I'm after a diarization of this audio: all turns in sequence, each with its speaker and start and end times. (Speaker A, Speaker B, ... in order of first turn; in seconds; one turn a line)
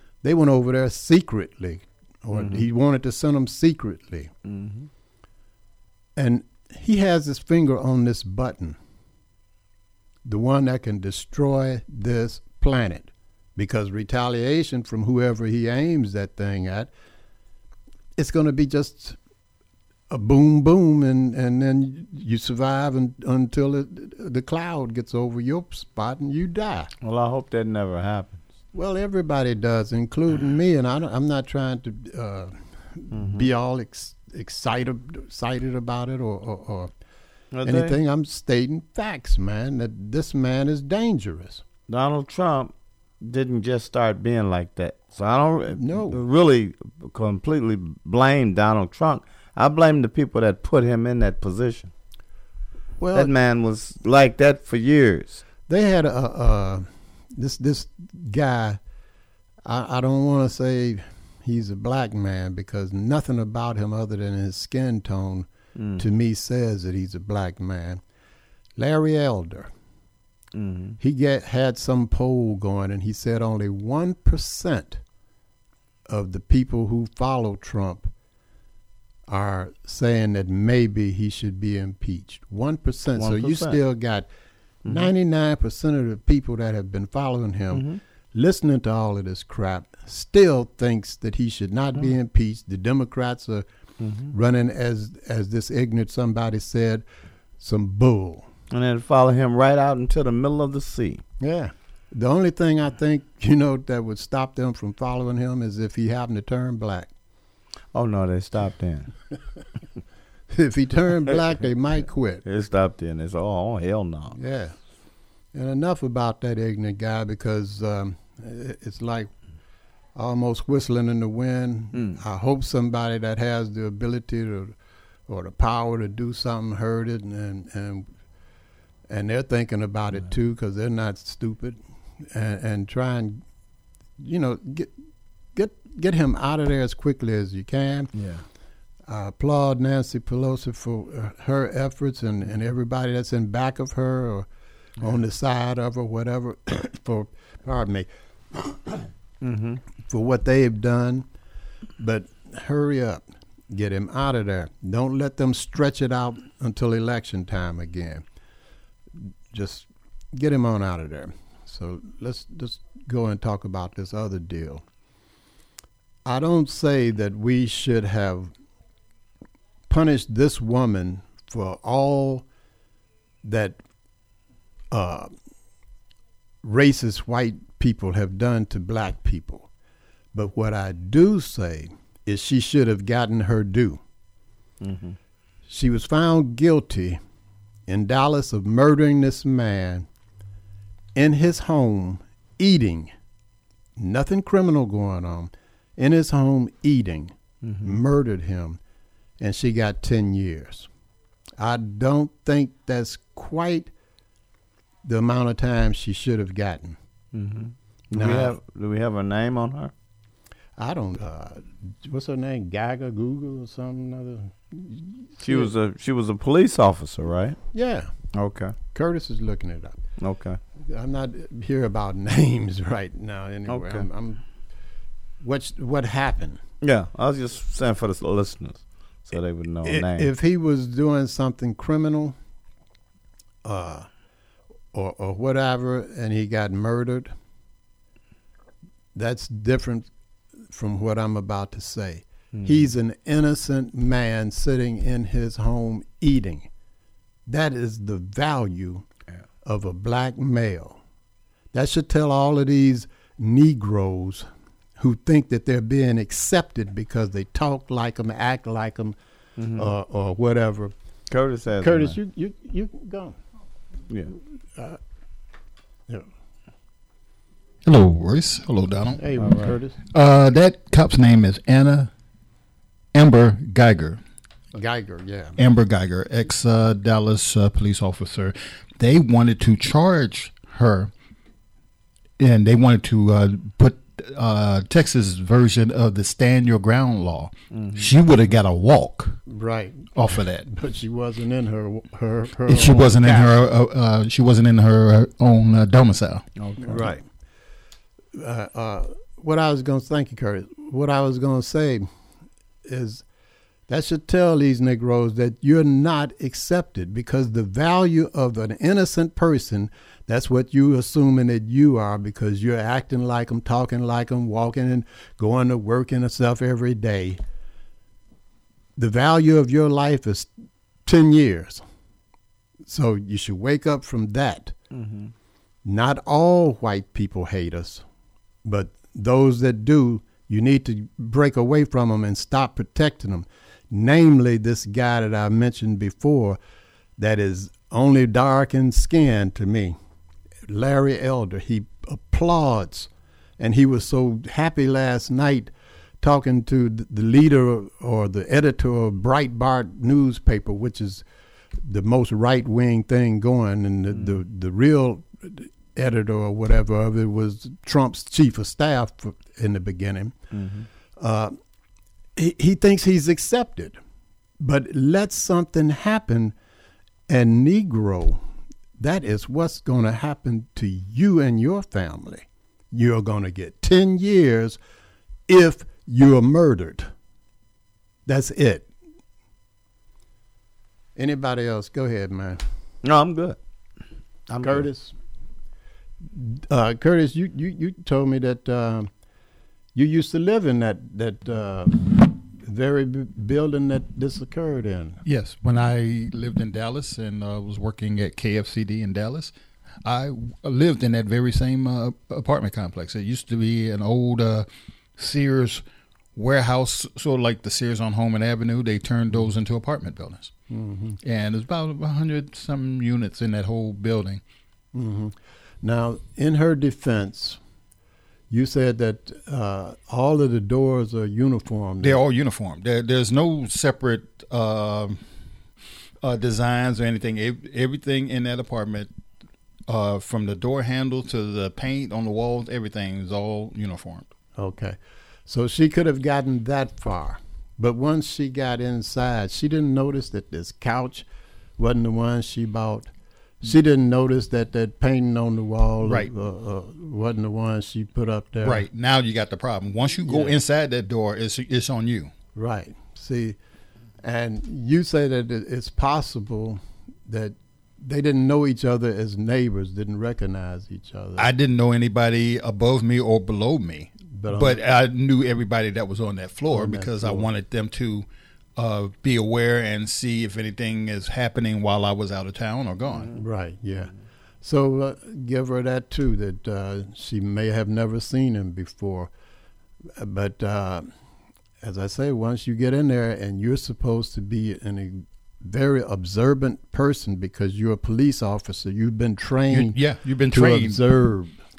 Speaker A: 0.2-4.3
Speaker B: 2.3-2.6
Speaker B: 4.5-4.9
Speaker A: 6.2-8.8
Speaker A: 10.2-16.9
Speaker A: 18.2-19.2
Speaker A: 20.1-26.9
Speaker B: 27.0-28.5
Speaker A: 28.7-36.9
Speaker B: 33.1-33.5
Speaker B: 37.5-38.0
Speaker A: 37.6-41.6
Speaker B: 41.9-51.9
Speaker A: 45.7-46.2
Speaker A: 53.0-53.3
Speaker B: 53.1-55.4
Speaker A: 55.7-58.8
Speaker A: 59.6-65.5
Speaker B: 65.8-66.0
Speaker A: 66.0-68.0
Speaker A: 68.8-69.7
Speaker B: 70.5-71.0
Speaker A: 71.0-75.0
Speaker A: 76.1-78.1
Speaker A: 79.3-84.3
Speaker B: 83.2-83.8
Speaker B: 84.8-85.1
Speaker A: 84.9-93.7
Speaker B: 87.7-88.0
Speaker B: 94.0-94.3
Speaker A: 94.3-97.0
Speaker A: 97.6-98.5
Speaker B: 98.7-101.2
Speaker A: 101.4-107.1
Speaker B: 107.9-109.1
Speaker A: 110.5-112.4
Speaker B: 112.5-114.4
Speaker A: 114.3-114.8
Speaker A: 115.5-119.3
Speaker A: 120.2-124.7
Speaker B: 121.9-122.2
Speaker A: 125.3-128.1
Speaker A: 129.1-131.8
Speaker A: 132.3-133.4
Speaker A: 134.2-134.9
Speaker A: 135.6-138.1
Speaker A: 139.1-144.5
Speaker A: 145.0-148.1
Speaker B: 149.4-149.8
Speaker A: 150.1-151.3
Speaker A: 152.0-158.2
Speaker A: 159.5-164.8
Speaker A: 166.2-168.5
Speaker A: 169.9-172.4
Speaker A: 173.4-173.8
Speaker A: 174.9-175.3
Speaker A: 176.6-179.7
Speaker A: 180.3-184.0
Speaker B: 184.8-185.2
Speaker A: 185.7-187.2
Speaker A: 187.9-190.1
Speaker A: 191.2-193.1
Speaker A: 194.0-198.8
Speaker B: 197.6-198.0
Speaker A: 199.4-200.9
Speaker A: 201.6-203.9
Speaker A: 205.1-207.0
Speaker B: 207.3-209.9
Speaker A: 208.1-208.5
Speaker A: 210.8-215.7
Speaker B: 215.4-217.6
Speaker A: 217.7-218.1
Speaker B: 218.3-218.8
Speaker A: 218.9-220.0
Speaker B: 220.2-220.6
Speaker A: 220.9-224.4
Speaker B: 223.7-224.1
Speaker A: 225.4-226.6
Speaker B: 226.8-230.3
Speaker A: 229.8-232.4
Speaker A: 233.7-234.1
Speaker A: 234.9-237.3
Speaker A: 239.2-240.1
Speaker A: 240.7-246.7
Speaker B: 242.5-242.9
Speaker A: 247.5-249.1
Speaker A: 249.7-251.0
Speaker A: 251.7-254.5
Speaker A: 255.0-259.2
Speaker B: 259.6-259.9
Speaker A: 259.8-260.9
Speaker B: 261.3-262.2
Speaker A: 261.8-263.4
Speaker C: 267.9-269.2
Speaker A: 269.2-270.0
Speaker B: 269.4-269.7
Speaker C: 270.1-272.1
Speaker C: 273.1-274.2
Speaker A: 274.8-275.6
Speaker C: 275.6-281.1
Speaker C: 282.4-289.4
Speaker B: 287.7-288.1
Speaker A: 289.5-293.5
Speaker C: 290.1-290.6
Speaker C: 292.7-297.1
Speaker B: 296.6-297.1
Speaker A: 296.8-297.2
Speaker A: 298.4-302.1
Speaker A: 302.9-303.2
Speaker A: 303.9-317.4
Speaker A: 319.0-320.5
Speaker A: 321.1-321.9
Speaker A: 322.9-324.8
Speaker B: 324.9-325.3
Speaker A: 325.9-328.1
Speaker A: 328.6-336.6
Speaker A: 337.2-340.0
Speaker A: 340.7-343.1
Speaker A: 343.6-345.7
Speaker A: 346.2-351.2
Speaker A: 351.8-360.4
Speaker B: 354.1-354.4
Speaker B: 360.5-360.9
Speaker A: 361.2-361.6
Speaker A: 362.4-364.0
Speaker A: 364.6-366.5
Speaker A: 367.3-368.4
Speaker A: 369.0-374.8
Speaker A: 375.5-377.1
Speaker A: 378.3-378.9
Speaker A: 381.2-382.6
Speaker B: 383.0-383.6
Speaker B: 384.5-384.9
Speaker A: 384.6-385.1
Speaker A: 386.3-389.1
Speaker A: 389.9-395.2
Speaker C: 395.2-399.5
Speaker C: 400.1-405.8
Speaker C: 406.4-410.5
Speaker A: 410.7-411.2
Speaker C: 411.2-414.4
Speaker A: 414.9-417.6
Speaker A: 418.5-422.2
Speaker C: 422.0-425.2
Speaker C: 426.2-429.1
Speaker C: 429.9-434.3
Speaker A: 434.6-435.0
Speaker A: 435.5-441.3
Speaker A: 441.8-443.1
Speaker A: 443.6-448.9
Speaker C: 446.0-446.3
Speaker C: 448.6-452.3
Speaker A: 450.2-450.6
Speaker A: 452.6-453.6
Speaker A: 454.2-461.5
Speaker C: 461.4-473.4
Speaker A: 464.2-464.8
Speaker A: 466.7-467.5
Speaker A: 473.3-474.1
Speaker A: 474.6-479.3
Speaker A: 480.2-481.1
Speaker A: 481.8-490.0
Speaker C: 489.7-491.0
Speaker A: 490.5-491.6